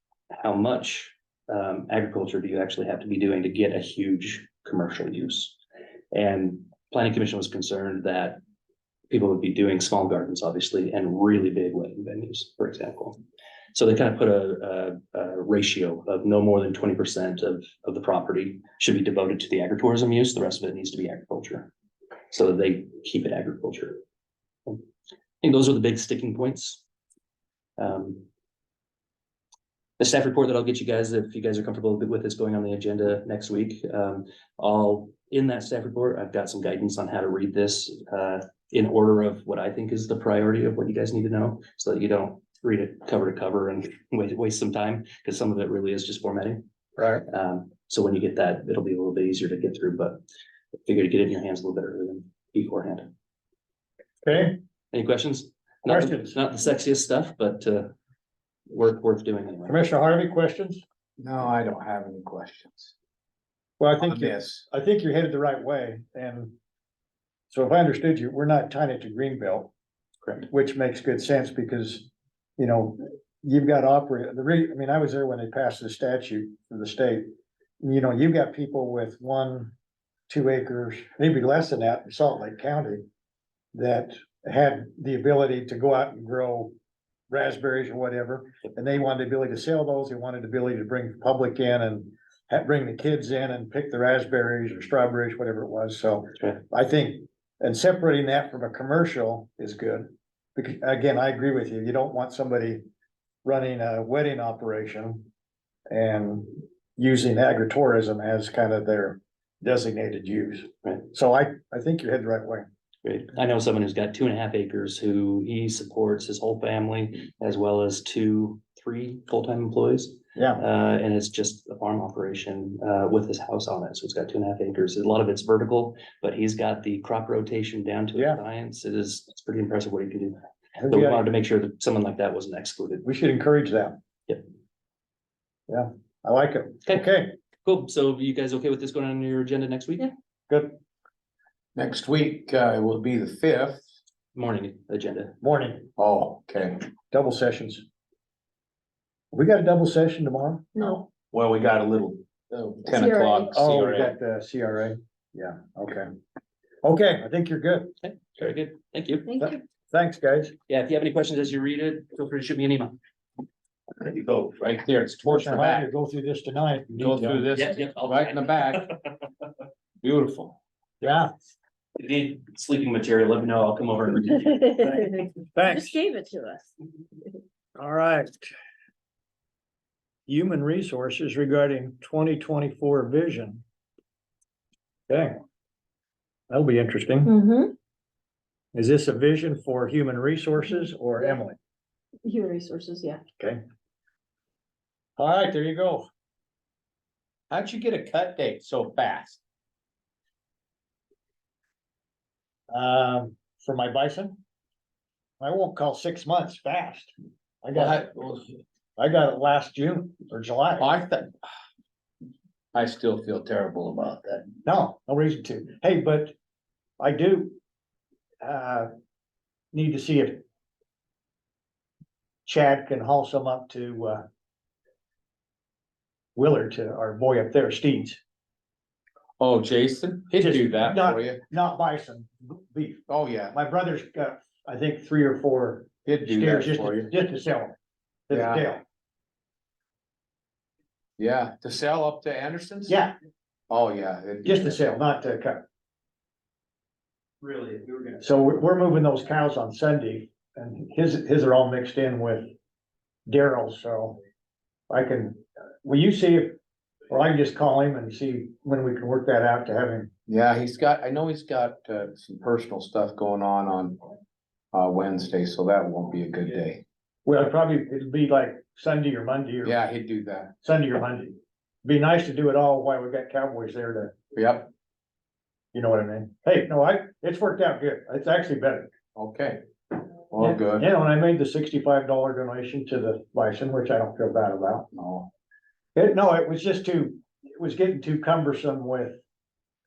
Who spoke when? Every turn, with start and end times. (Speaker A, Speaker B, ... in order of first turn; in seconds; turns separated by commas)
Speaker A: 0.3-5.6, Speaker A: 6.1-8.4, Speaker A: 9.1-13.2, Speaker A: 13.7-21.7, Speaker A: 22.3-24.0, Speaker A: 25.4-26.8, Speaker A: 27.8-28.2, Speaker A: 30.0-46.6, Speaker B: 47.0-47.2, Speaker A: 47.3-50.2, Speaker A: 50.9-53.1, Speaker B: 54.2-54.6, Speaker A: 54.9-57.9, Speaker B: 55.9-56.4, Speaker A: 58.7-59.8, Speaker B: 59.7-60.8, Speaker C: 61.2-62.9, Speaker B: 63.8-66.5, Speaker C: 64.0-64.6, Speaker B: 67.5-69.7, Speaker B: 70.5-77.3, Speaker B: 77.8-79.7, Speaker B: 80.3-83.0, Speaker B: 83.7-86.7, Speaker B: 87.3-102.8, Speaker B: 103.4-105.2, Speaker B: 105.9-112.7, Speaker A: 113.0-130.4, Speaker B: 120.3-120.6, Speaker B: 130.8-131.2, Speaker A: 130.9-133.1, Speaker B: 133.1-134.0, Speaker B: 135.7-137.3, Speaker A: 137.6-140.1, Speaker B: 140.5-140.8, Speaker C: 141.8-143.8, Speaker A: 144.3-145.4, Speaker B: 145.4-145.9, Speaker C: 146.0-146.9, Speaker B: 147.1-147.8, Speaker B: 149.3-150.9, Speaker D: 150.8-151.0, Speaker C: 151.0-154.1, Speaker D: 152.9-153.7, Speaker B: 153.5-156.1, Speaker B: 156.8-157.9, Speaker A: 158.0-159.4, Speaker D: 159.3-159.6, Speaker B: 159.4-160.5, Speaker A: 160.7-163.0, Speaker C: 164.0-165.9, Speaker B: 165.3-167.5, Speaker C: 166.9-168.9, Speaker A: 167.5-169.1, Speaker C: 170.0-170.6, Speaker B: 171.0-171.3, Speaker A: 172.0-175.2, Speaker B: 175.6-176.0, Speaker D: 175.6-176.7, Speaker B: 177.8-178.5, Speaker B: 180.3-183.6, Speaker B: 185.1-185.4, Speaker B: 186.5-187.3, Speaker D: 187.2-187.8, Speaker B: 188.7-191.6, Speaker D: 190.7-191.3, Speaker D: 192.2-193.2, Speaker B: 195.2-196.1, Speaker C: 197.5-199.4, Speaker B: 202.7-204.4, Speaker B: 205.4-208.1, Speaker C: 207.8-208.5, Speaker B: 209.0-210.9, Speaker C: 210.8-211.4, Speaker C: 212.7-214.5, Speaker B: 214.7-216.3, Speaker B: 217.0-217.6, Speaker B: 218.4-218.9, Speaker B: 219.7-220.4, Speaker B: 222.5-224.2, Speaker B: 226.4-228.2, Speaker C: 229.4-231.4, Speaker B: 230.3-237.7, Speaker C: 233.1-233.5, Speaker C: 236.1-237.1, Speaker B: 238.3-238.8, Speaker C: 238.3-238.7, Speaker C: 241.2-243.0, Speaker B: 242.9-243.2, Speaker C: 243.7-244.8, Speaker B: 244.4-245.6, Speaker A: 247.4-248.2, Speaker B: 248.2-252.5, Speaker B: 253.3-254.2, Speaker B: 254.9-256.6, Speaker B: 257.1-260.1, Speaker C: 260.3-264.0, Speaker C: 264.7-266.8, Speaker B: 267.3-269.8, Speaker C: 269.6-270.5, Speaker B: 270.6-274.1, Speaker C: 274.3-274.7, Speaker B: 275.7-278.9, Speaker C: 279.2-279.6, Speaker C: 280.3-280.9, Speaker B: 280.4-284.9, Speaker C: 284.9-285.3, Speaker B: 285.9-289.2